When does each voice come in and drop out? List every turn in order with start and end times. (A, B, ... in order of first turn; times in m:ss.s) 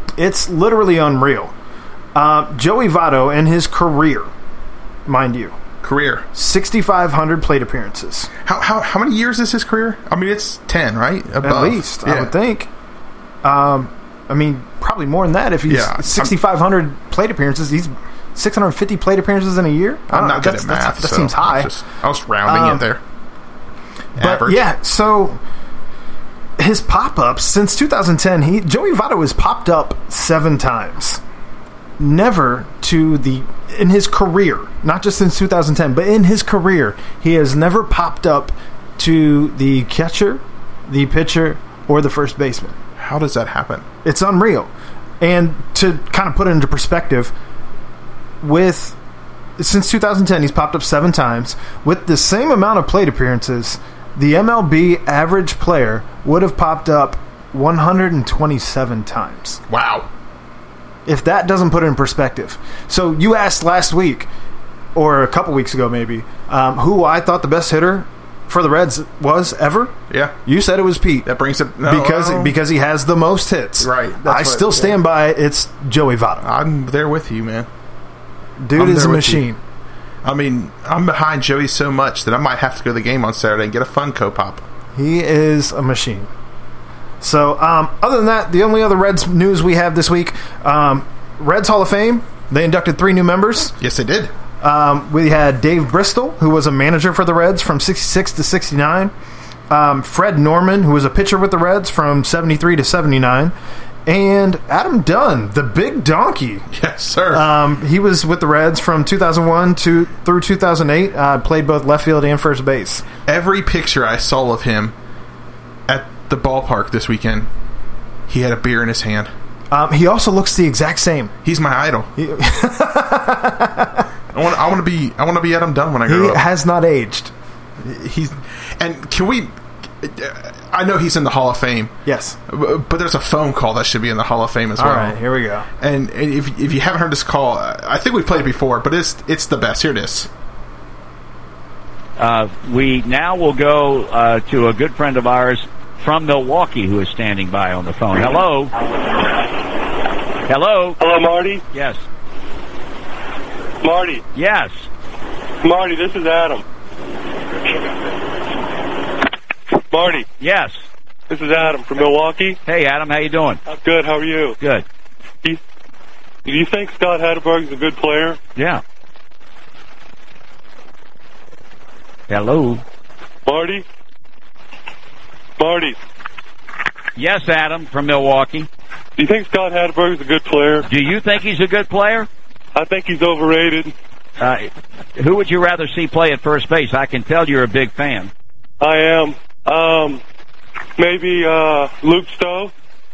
0:00.2-0:01.5 A
0:02.1-0:04.3 A
0:05.1-0:05.6 A
0:05.8-0:06.2 B
0:06.3-0:08.3 A
0:08.4-0:12.3 B
0:11.4-0:12.7 A
0:13.4-0:21.7 A
0:15.7-0:16.3 B
0:20.1-0:23.0 B
0:22.4-0:22.9 A
0:24.2-0:24.6 B
0:24.2-0:25.4 A
0:26.6-0:31.2 A
0:32.0-0:42.8 A
0:43.0-0:43.8 B
0:44.0-0:44.7 A
0:45.2-0:47.3 A
0:48.4-0:49.0 A
0:49.6-0:59.6 A
0:59.7-1:00.1 B
1:01.0-1:04.3 A
1:04.9-1:09.9 A
1:10.1-1:10.3 B
1:10.4-1:11.3 A
1:11.2-1:12.6 B
1:11.8-1:16.5 A
1:13.8-1:15.0 B
1:16.4-1:17.7 B
1:18.6-1:19.6 A
1:18.8-1:19.4 B
1:20.2-1:24.6 B
1:24.9-1:26.3 A
1:27.2-1:33.7 A
1:33.8-1:34.3 B
1:34.6-1:39.1 A
1:39.7-1:43.5 A
1:44.0-1:46.7 A
1:46.7-1:47.5 B
1:47.3-1:53.0 A
1:53.3-1:54.9 B
1:55.9-1:57.5 B
1:58.3-1:59.3 B
1:59.7-2:01.3 A
2:01.4-2:02.1 B
2:02.2-2:04.0 A
2:04.3-2:06.4 B
2:06.0-2:07.3 A
2:07.8-2:11.9 B
2:12.0-2:12.4 A
2:12.5-2:15.2 B
2:14.8-2:15.7 A
2:15.8-2:20.3 B
2:22.2-2:28.7 C
2:30.5-2:31.0 C
2:31.0-2:31.6 D
2:31.7-2:32.0 C
2:33.8-2:34.2 D
2:34.3-2:34.9 C
2:35.6-2:36.6 D
2:39.9-2:40.3 D
2:40.4-2:40.8 C
2:41.3-2:42.6 D
2:42.6-2:43.6 C
2:43.6-2:44.6 D
2:46.4-2:48.4 D
2:48.6-2:48.8 C
2:52.3-2:52.8 C
2:53.4-2:53.8 D
2:55.6-2:56.0 D
2:57.2-2:58.7 C
2:59.2-3:00.9 D
3:00.9-3:02.3 C
3:02.7-3:03.9 D
3:04.4-3:08.3 C
3:08.8-3:10.2 D
3:11.0-3:12.7 D